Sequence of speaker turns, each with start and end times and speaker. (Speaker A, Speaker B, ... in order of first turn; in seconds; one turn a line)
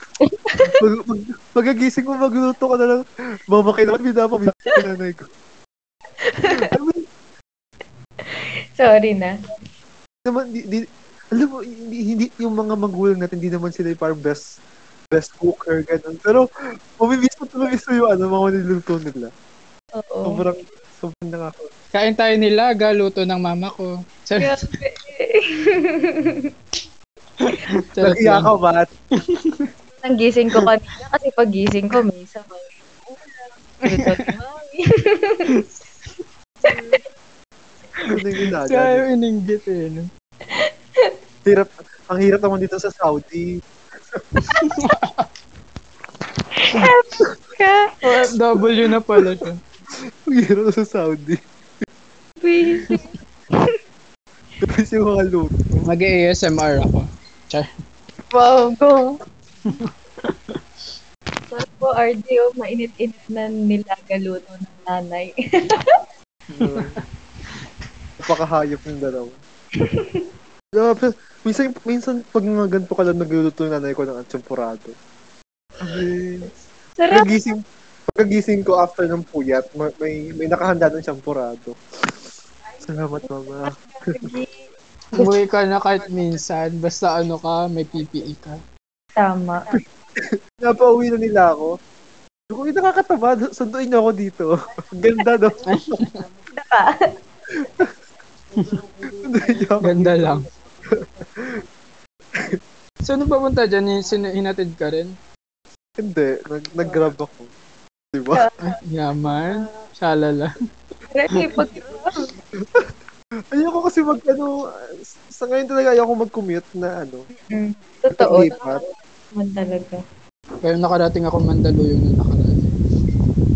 Speaker A: 0.2-0.7
Speaker B: 0.6-5.2
Speaker A: 6.2-6.7
Speaker B: 6.5-7.0
Speaker A: 8.3-9.3
Speaker B: 10.2-14.4
Speaker B: 15.1-16.4
Speaker B: 17.0-19.3
Speaker A: 20.0-20.4
Speaker B: 20.2-21.7
Speaker C: 21.9-24.6
Speaker A: 24.4-26.5
Speaker C: 27.4-28.5
Speaker B: 28.0-28.9
Speaker C: 29.2-29.7
Speaker A: 30.0-35.5
Speaker C: 33.9-34.3
Speaker A: 36.7-37.0
Speaker C: 38.0-40.1
Speaker B: 38.0-39.1
Speaker A: 40.5-41.1
Speaker B: 41.4-43.6
Speaker C: 44.5-45.3
Speaker A: 46.6-47.9
Speaker C: 48.0-49.6
Speaker B: 48.9-49.4
Speaker B: 50.3-51.4
Speaker A: 52.4-53.7
Speaker B: 54.6-55.5
Speaker C: 55.8-57.7
Speaker A: 58.3-59.2
Speaker C: 59.6-60.5
Speaker A: 61.5-65.9
Speaker B: 66.5-67.0
Speaker C: 66.5-67.0
Speaker B: 68.2-69.3
Speaker A: 69.8-70.2
Speaker B: 70.7-74.9
Speaker B: 75.8-76.5
Speaker A: 77.0-77.4
Speaker B: 77.1-77.6
Speaker B: 78.2-81.8
Speaker B: 82.8-84.2
Speaker A: 83.7-84.5
Speaker C: 85.1-88.5
Speaker A: 89.2-89.6
Speaker B: 90.2-91.7
Speaker B: 92.5-96.0
Speaker C: 95.7-96.2
Speaker A: 96.5-97.0
Speaker B: 97.6-97.9
Speaker C: 98.5-98.8
Speaker B: 99.1-100.3
Speaker C: 99.8-100.4
Speaker B: 100.9-101.6
Speaker C: 103.0-105.1
Speaker B: 106.0-107.5
Speaker B: 108.1-108.4
Speaker A: 108.3-108.8
Speaker C: 108.6-110.5
Speaker A: 111.1-112.2
Speaker C: 111.3-111.7
Speaker B: 112.6-112.8
Speaker B: 113.5-114.5
Speaker B: 115.1-117.2
Speaker A: 117.5-120.0
Speaker B: 118.1-118.8
Speaker C: 120.6-122.7